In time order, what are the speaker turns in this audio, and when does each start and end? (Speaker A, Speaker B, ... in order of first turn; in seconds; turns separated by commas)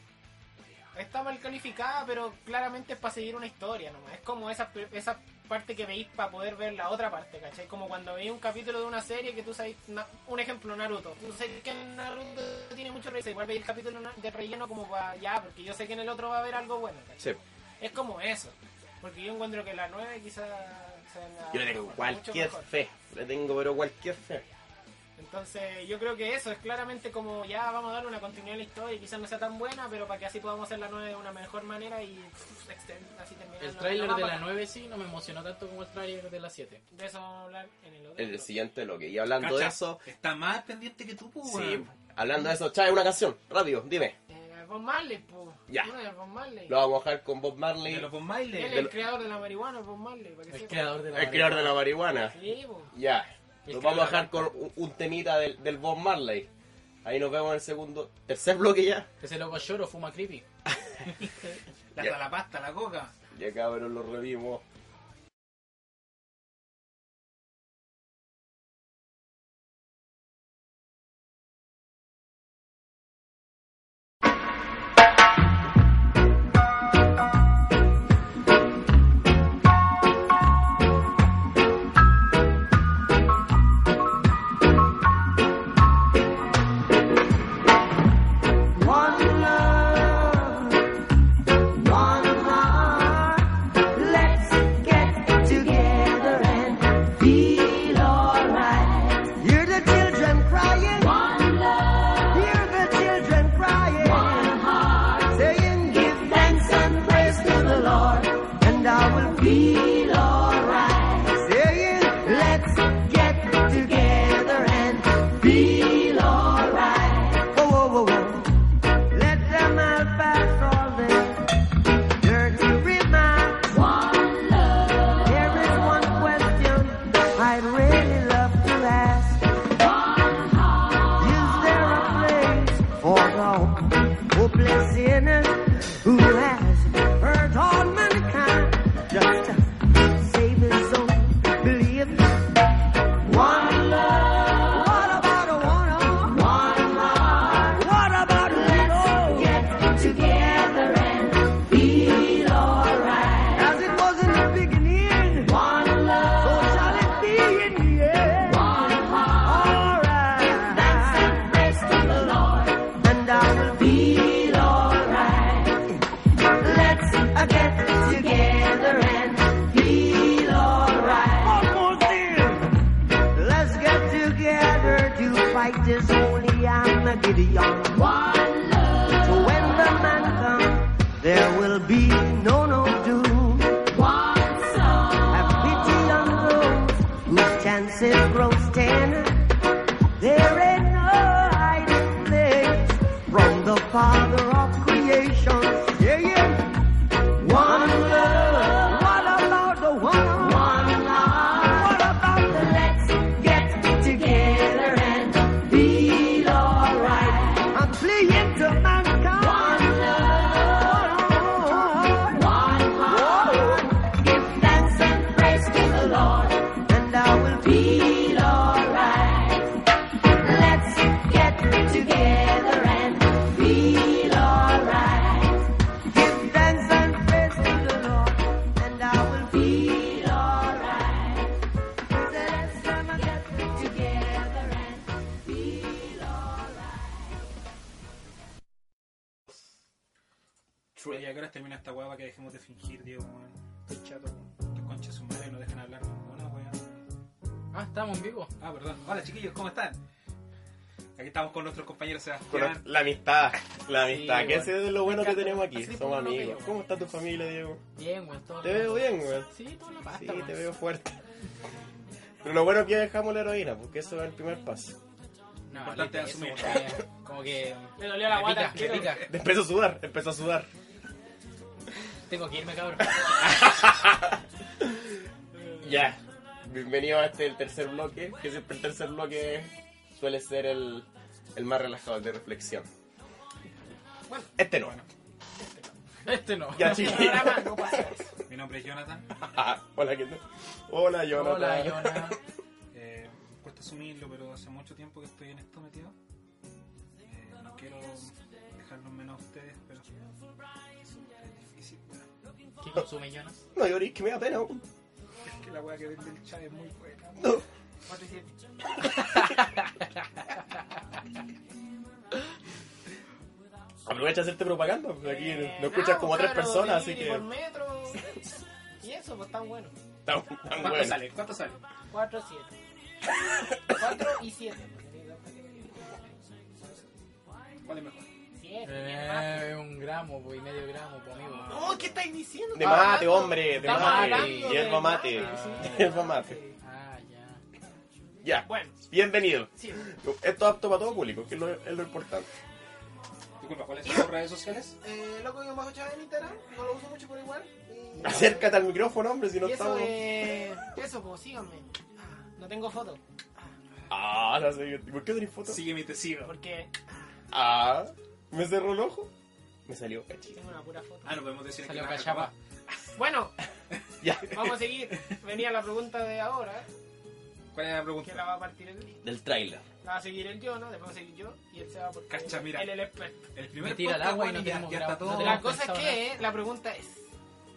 Speaker A: 0.9-22.7, Speaker B: 21.5-24.5, Speaker A: 25.2-34.5, Speaker C: 33.6-36.8, Speaker A: 36.9-38.5, Speaker B: 38.2-40.0, Speaker D: 39.4-41.9, Speaker B: 41.4-44.2, Speaker A: 44.3-46.8, Speaker B: 46.7-48.1, Speaker D: 47.9-48.9, Speaker A: 48.5-51.0, Speaker B: 48.7-48.9, Speaker C: 50.5-51.9, Speaker B: 51.1-52.4, Speaker A: 52.3-52.9, Speaker B: 52.9-56.5, Speaker C: 53.6-54.5, Speaker B: 57.0-59.1, Speaker C: 59.2-60.5, Speaker D: 62.0-63.1, Speaker B: 63.3-64.6, Speaker E: 88.7-90.9, Speaker E: 91.7-121.5, Speaker E: 122.2-124.0, Speaker E: 125.1-129.5, Speaker E: 131.1-142.4, Speaker E: 143.2-166.0, Speaker E: 166.6-172.8, Speaker E: 173.3-178.2, Speaker E: 179.2-189.5, Speaker E: 190.2-196.7, Speaker E: 197.3-219.7, Speaker E: 220.3-231.5, Speaker E: 232.1-236.5, Speaker B: 241.0-241.2, Speaker D: 241.1-247.0, Speaker C: 247.7-248.5, Speaker D: 248.6-250.0, Speaker D: 251.2-252.8, Speaker B: 252.5-257.8, Speaker C: 254.0-256.7, Speaker C: 258.0-260.7, Speaker B: 258.6-259.5, Speaker B: 260.1-261.2, Speaker B: 262.4-265.0, Speaker C: 265.7-269.3, Speaker D: 265.7-267.0, Speaker A: 268.0-269.2, Speaker D: 268.7-269.2, Speaker B: 269.3-270.7, Speaker C: 272.3-273.1, Speaker B: 273.4-275.0, Speaker B: 275.8-282.9, Speaker A: 284.3-284.6, Speaker B: 284.6-285.0, Speaker D: 284.8-285.1, Speaker A: 285.6-286.0, Speaker C: 286.3-287.4, Speaker B: 286.7-288.0, Speaker A: 286.8-288.3, Speaker D: 288.5-289.3, Speaker B: 289.4-292.4, Speaker C: 291.3-292.4, Speaker D: 292.9-296.1, Speaker D: 297.3-300.3, Speaker D: 301.0-302.3, Speaker C: 302.8-303.6, Speaker B: 303.8-304.9, Speaker D: 305.4-307.6, Speaker A: 308.1-308.5, Speaker B: 314.1-317.5, Speaker A: 315.2-318.3, Speaker A: 319.0-319.9, Speaker B: 320.3-321.3, Speaker D: 320.6-321.8, Speaker A: 322.1-322.8, Speaker A: 323.9-327.0, Speaker D: 327.8-328.3, Speaker A: 328.6-329.7, Speaker C: 328.8-331.9, Speaker D: 331.4-332.1, Speaker A: 331.7-336.8, Speaker B: 332.7-336.6, Speaker C: 333.1-336.1, Speaker C: 336.8-337.6, Speaker B: 338.4-342.5, Speaker A: 338.6-339.0, Speaker D: 343.6-345.0, Speaker A: 345.0-348.8, Speaker B: 348.2-350.3, Speaker A: 349.6-353.7, Speaker B: 354.1-355.9, Speaker D: 355.7-356.6, Speaker A: 356.4-356.9, Speaker B: 357.5-359.3, Speaker B: 359.9-360.6, Speaker A: 360.5-361.4, Speaker D: 361.2-362.5, Speaker C: 361.8-362.5, Speaker A: 363.2-363.6, Speaker B: 364.2-364.7, Speaker A: 364.4-366.9, Speaker D: 367.7-368.5, Speaker A: 368.2-369.2, Speaker B: 369.2-369.9, Speaker A: 370.0-373.5, Speaker D: 372.3-375.8, Speaker C: 373.8-376.3, Speaker A: 375.3-377.3